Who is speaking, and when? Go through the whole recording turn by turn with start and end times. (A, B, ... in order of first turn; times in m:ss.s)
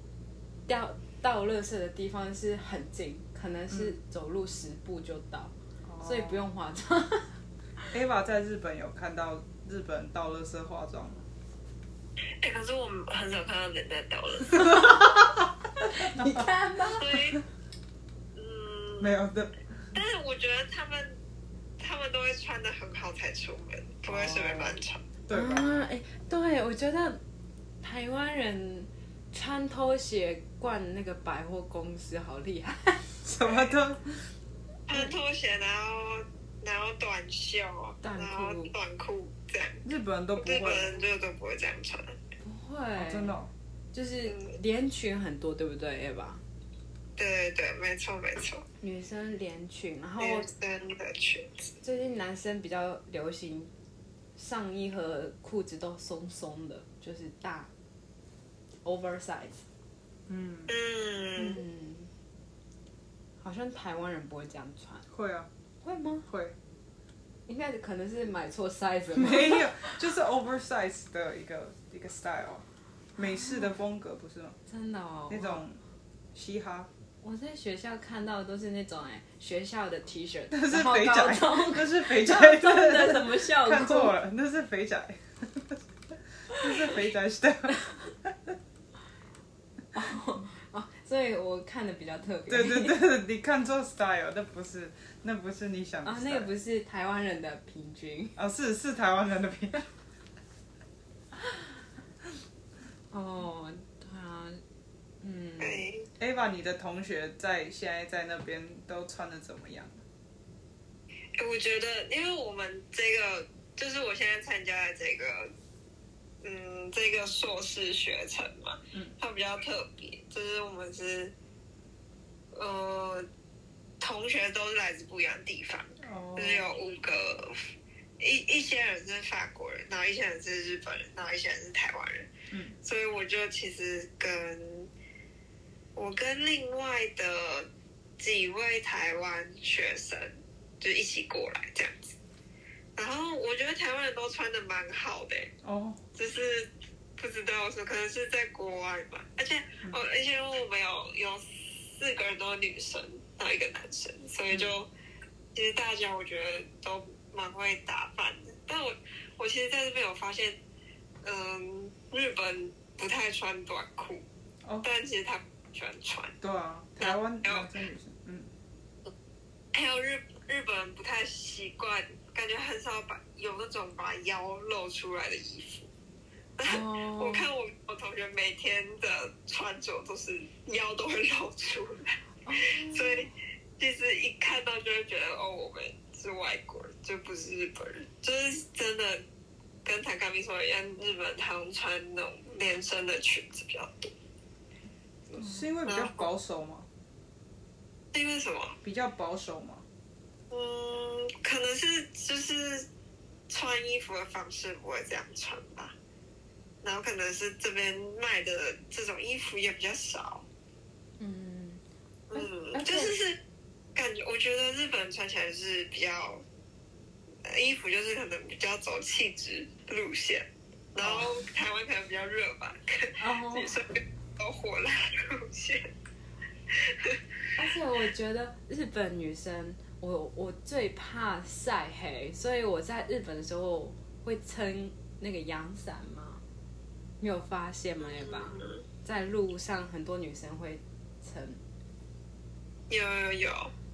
0:00.7-0:07.9 A
0:05.8-0:06.4 B
0:07.9-0:11.2 B
0:12.4-0:14.7 C
0:14.6-0:15.2 A
0:14.6-0:15.0 B
0:15.8-0:17.2 A
0:16.0-0:16.4 B
0:17.0-0:17.4 C
0:18.3-0:19.1 C
0:19.0-0:19.5 B
0:19.9-0:21.2 C
0:21.8-0:25.0 C
0:24.1-0:24.8 B
0:25.3-0:25.8 B
0:25.3-0:27.2 A
0:27.8-0:33.2 A
0:33.2-0:34.3 B
0:34.9-0:39.8 C
0:38.0-0:38.7 A
0:39.8-0:40.9 B
0:40.4-0:42.2 C
0:42.4-0:43.4 A
0:43.0-0:43.5 B
0:43.9-0:46.4 A
0:44.3-0:44.6 C
0:47.2-0:48.6 C
0:48.8-0:50.5 A
0:50.2-0:51.6 C
0:51.8-0:53.7 A
0:54.4-0:57.7 A
0:58.8-0:59.6 A
1:00.3-1:00.7 B
1:00.7-1:01.6 C
1:01.4-1:02.1 A
1:03.4-1:05.1 A
1:05.1-1:05.5 B
1:05.8-1:06.2 A
1:06.3-1:06.6 B
1:07.5-1:10.0 A
1:09.1-1:12.6 B
1:13.2-1:14.6 B
1:13.2-1:13.7 A
1:14.7-1:15.6 A
1:15.3-1:15.8 B
1:16.3-1:16.9 B
1:17.2-1:24.1 A
1:20.5-1:25.8 B
1:26.5-1:28.5 B
1:29.9-1:33.0 A
1:32.5-1:36.5 B
1:36.0-1:38.4 A
1:38.4-1:39.9 B
1:43.1-1:44.6 A
1:45.2-1:45.9 A
1:45.6-1:46.1 C
1:46.2-1:50.0 B
1:51.4-1:55.5 C
1:56.4-2:01.3 C
2:02.5-2:03.3 C
2:04.0-2:12.3 C
2:06.0-2:06.7 B
2:12.5-2:12.7 B
2:12.8-2:14.9 C
2:16.0-2:17.7 C
2:18.2-2:22.2 C
2:23.0-2:25.5 C
2:25.6-2:26.0 B
2:26.1-2:34.9 C
2:35.5-2:40.6 C
2:41.2-2:44.2 C
2:44.8-2:46.3 C
2:46.4-2:48.5 B
2:47.0-2:47.7 C
2:49.7-2:55.9 C
2:56.6-3:09.2 C
2:56.6-2:57.5 A
3:02.4-3:03.3 A
3:09.8-3:14.1 C
3:15.3-3:16.9 B
3:15.8-3:16.2 C
3:18.1-3:18.8 C
3:18.8-3:19.8 B
3:20.5-3:22.9 C
3:23.5-3:25.9 C
3:26.8-3:30.4 C
3:31.2-3:31.8 A
3:32.3-3:33.4 C
3:32.3-3:33.1 A
3:33.9-3:36.4 C
3:37.4-3:45.9 C
3:43.2-3:43.8 A
3:46.7-3:47.2 C
3:47.6-3:56.4 A
3:57.2-4:01.6 A
3:58.0-3:58.8 C
4:02.9-4:03.7 C